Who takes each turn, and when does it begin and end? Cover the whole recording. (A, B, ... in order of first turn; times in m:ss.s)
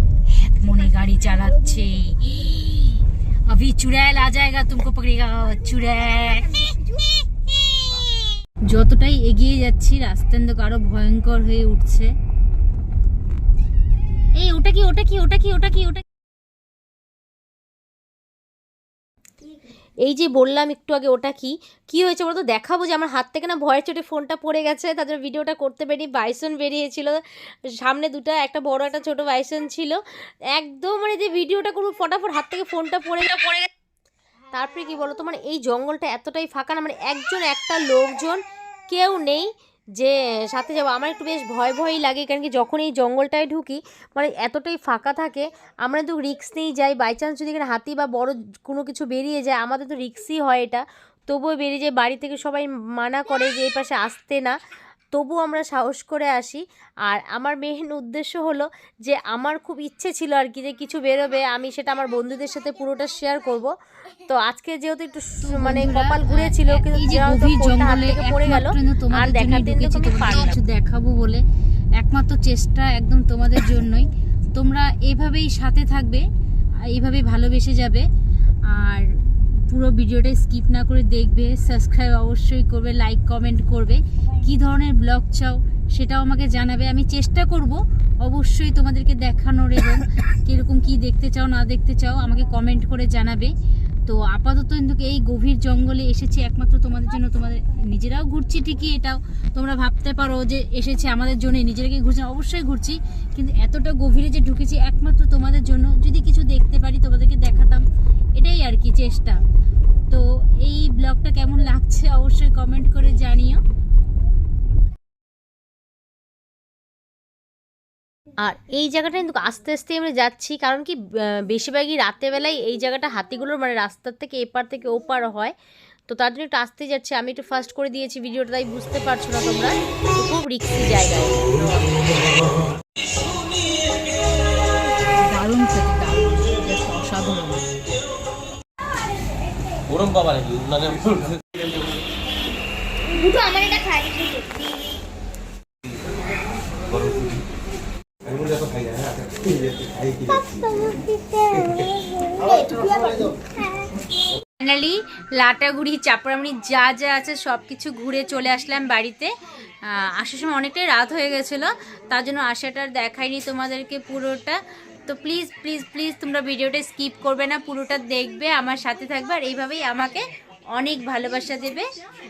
0:00.4-0:06.8 A
0:06.6-0:07.0 B
0:08.7-0:12.1 A
0:14.4-0:16.0 A
0:20.0-0:30.0 C
0:30.6-0:33.7 C
0:34.5-0:38.4 C
0:38.9-0:39.5 C
0:40.0-0:54.5 C
0:55.1-1:03.7 C
1:04.3-1:10.6 C
1:05.4-1:11.4 A
1:12.0-1:16.2 A
1:16.8-1:18.1 A
1:18.7-1:33.5 A
1:34.1-1:47.8 A
1:48.4-1:49.4 A
1:50.1-1:53.6 A
1:58.4-2:05.5 C
2:06.1-2:12.5 C
2:15.2-2:17.7 A
2:23.1-2:24.9 B
2:30.2-2:33.6 B
2:34.6-2:39.3 A
2:39.9-2:51.9 A